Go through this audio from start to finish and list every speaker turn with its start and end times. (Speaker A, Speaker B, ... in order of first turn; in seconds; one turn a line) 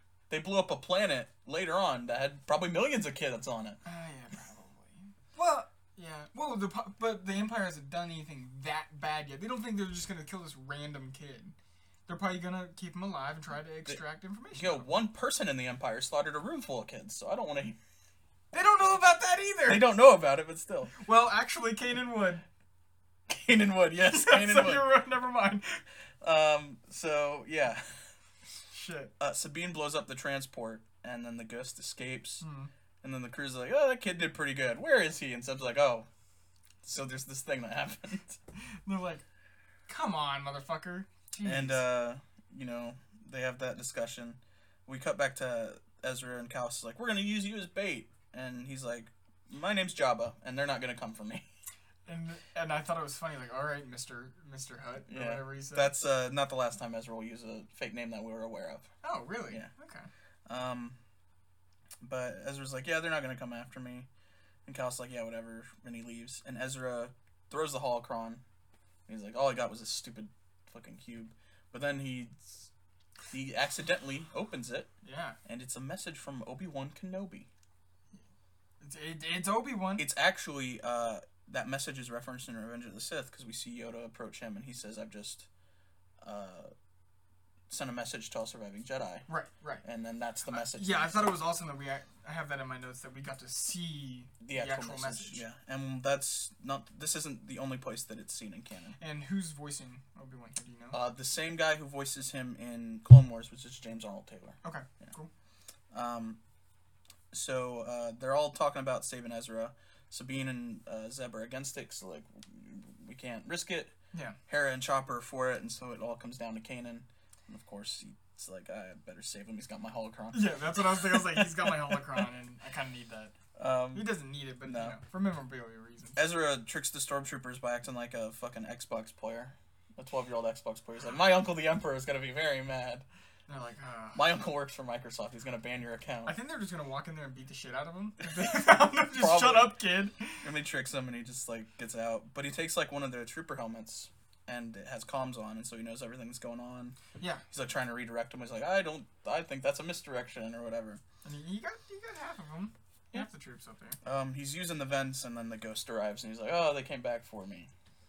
Speaker A: 0.3-3.8
Speaker B: 3.8-11.5
Speaker B: 12.1-14.9
Speaker A: 14.5-17.8
Speaker B: 18.5-19.9
Speaker A: 19.7-20.9
Speaker B: 20.9-22.4
Speaker A: 23.3-25.0
Speaker B: 24.0-25.8
Speaker A: 26.2-28.0
Speaker B: 28.7-29.1
Speaker A: 29.2-32.4
Speaker B: 32.4-32.7
Speaker A: 33.0-36.1
Speaker A: 36.8-38.4
Speaker B: 38.5-39.2
Speaker B: 39.9-41.8
Speaker A: 41.4-51.5
Speaker B: 52.0-55.9
Speaker A: 55.1-58.9
Speaker B: 59.0-60.1
Speaker A: 60.5-61.0
Speaker A: 62.0-64.1
Speaker A: 64.7-68.4
Speaker A: 69.1-72.7
Speaker A: 73.3-74.9
Speaker B: 75.0-75.4
Speaker A: 75.4-77.5
Speaker B: 78.8-80.1
Speaker A: 80.0-85.5
Speaker A: 86.2-86.7
Speaker A: 87.7-89.2
Speaker B: 89.3-89.8
Speaker A: 89.8-91.3
Speaker B: 90.5-95.4
Speaker A: 94.4-99.0
Speaker B: 99.0-101.0
Speaker A: 100.9-105.1
Speaker B: 104.6-105.3
Speaker A: 105.9-106.4
Speaker A: 107.3-113.9
Speaker B: 114.1-114.4
Speaker A: 114.5-122.2
Speaker B: 120.3-123.3
Speaker A: 123.5-124.1
Speaker B: 123.9-126.2
Speaker A: 124.6-125.0
Speaker A: 126.2-133.0
Speaker B: 133.5-134.3
Speaker A: 134.1-136.3
Speaker B: 136.2-140.5
Speaker A: 138.3-139.8
Speaker A: 140.4-147.0
Speaker B: 147.2-147.4
Speaker A: 147.5-151.0
Speaker B: 151.2-154.0
Speaker A: 154.0-157.7